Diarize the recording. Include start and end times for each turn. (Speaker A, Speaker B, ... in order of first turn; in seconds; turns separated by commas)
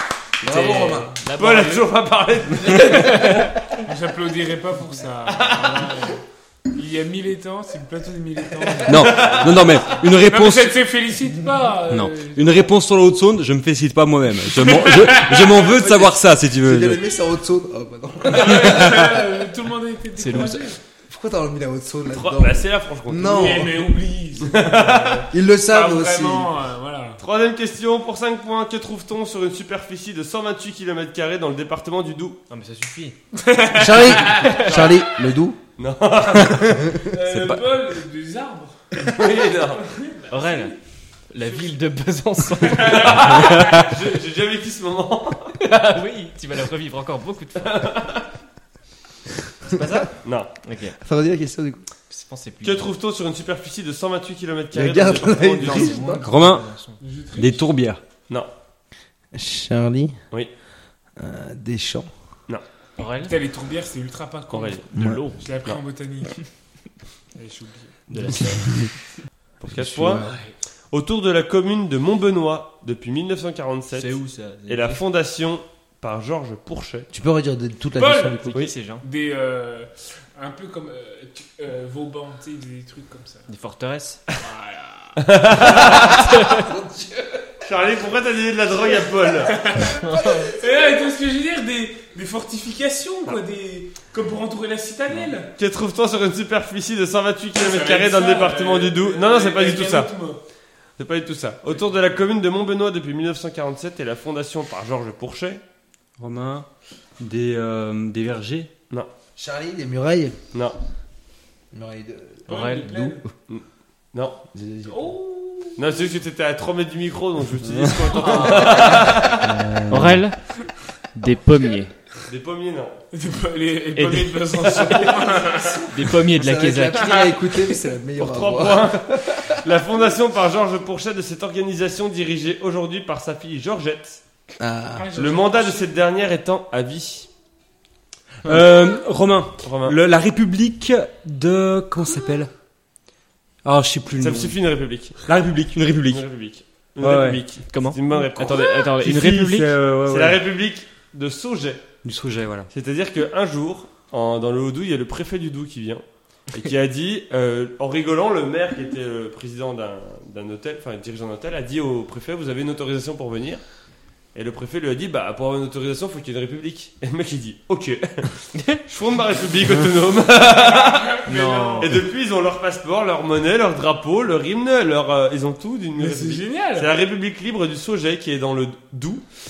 Speaker A: 0.4-1.1, Speaker B: 0.4-1.9, Speaker C: 1.4-3.5, Speaker B: 2.7-3.5, Speaker D: 3.8-9.4, Speaker C: 5.3-5.9, Speaker E: 8.9-10.8, Speaker C: 8.9-9.9, Speaker D: 10.1-12.6, Speaker E: 11.9-17.0, Speaker D: 14.5-15.7, Speaker A: 15.8-19.3, Speaker D: 18.3-20.8, Speaker B: 20.2-20.6, Speaker A: 21.1-23.9, Speaker C: 22.1-23.7, Speaker D: 23.2-27.2, Speaker C: 24.4-25.2, Speaker A: 25.3-26.5, Speaker C: 27.2-32.4, Speaker B: 32.5-33.1, Speaker D: 33.3-35.1, Speaker A: 33.7-35.6, Speaker B: 34.1-34.8, Speaker C: 35.8-36.9, Speaker A: 36.5-37.1, Speaker D: 37.0-39.1, Speaker E: 37.2-37.6, Speaker C: 39.0-39.8, Speaker D: 39.8-40.7, Speaker B: 40.3-40.8, Speaker B: 41.3-43.4, Speaker D: 42.6-43.9, Speaker C: 42.8-45.5, Speaker B: 45.6-47.8, Speaker C: 47.6-48.2, Speaker B: 49.7-50.1, Speaker C: 49.7-50.5, Speaker B: 50.6-51.0, Speaker A: 51.0-51.8, Speaker B: 52.1-52.9, Speaker C: 52.6-56.1, Speaker A: 54.7-56.2, Speaker B: 55.6-57.0, Speaker E: 56.2-56.6, Speaker D: 57.0-57.7, Speaker E: 57.4-58.0, Speaker A: 59.3-60.1, Speaker A: 61.2-62.1, Speaker B: 63.0-63.4, Speaker D: 63.2-64.8, Speaker C: 64.5-64.8, Speaker B: 64.9-65.4, Speaker A: 65.0-65.2, Speaker D: 65.4-66.5, Speaker D: 67.3-68.6, Speaker B: 68.1-68.6, Speaker A: 68.1-68.9, Speaker C: 69.6-70.3, Speaker A: 69.7-70.3, Speaker C: 70.9-74.1, Speaker B: 73.9-75.0, Speaker C: 74.7-77.1, Speaker A: 77.1-78.5, Speaker D: 77.9-83.5, Speaker B: 78.5-79.0, Speaker B: 83.5-84.2, Speaker D: 84.4-85.2, Speaker C: 85.2-86.2, Speaker B: 85.8-86.7, Speaker A: 86.3-87.5, Speaker C: 87.6-89.5, Speaker D: 89.4-95.5, Speaker B: 89.8-90.5, Speaker C: 95.6-100.1, Speaker D: 97.5-100.4, Speaker C: 101.0-105.6, Speaker E: 106.2-106.7, Speaker E: 107.2-108.7, Speaker A: 109.4-110.4, Speaker A: 111.7-113.0, Speaker D: 112.5-113.2, Speaker B: 112.5-113.2, Speaker C: 113.5-114.4, Speaker A: 114.5-115.2, Speaker D: 114.9-115.9, Speaker C: 115.8-119.6, Speaker B: 118.1-119.1, Speaker D: 118.2-118.5, Speaker A: 119.4-120.2, Speaker B: 119.9-120.5, Speaker B: 121.1-121.9, Speaker C: 122.2-123.0, Speaker D: 123.1-125.9, Speaker B: 123.9-125.0, Speaker A: 124.9-129.6, Speaker B: 125.9-127.2, Speaker D: 127.0-127.4, Speaker C: 128.2-134.2, Speaker A: 134.6-135.1, Speaker D: 134.9-135.9, Speaker C: 135.2-137.3, Speaker E: 138.4-142.5, Speaker C: 139.6-140.0, Speaker E: 143.6-144.5, Speaker C: 144.2-145.2, Speaker E: 145.2-146.2, Speaker C: 146.1-148.9, Speaker E: 147.0-147.4, Speaker B: 147.7-149.8, Speaker E: 148.4-150.4, Speaker C: 150.0-151.8, Speaker E: 152.0-152.7, Speaker C: 152.7-163.6, Speaker C: 164.3-171.2, Speaker B: 168.5-168.8, Speaker D: 170.5-171.9, Speaker B: 171.2-172.0, Speaker C: 171.8-179.2, Speaker D: 175.9-176.9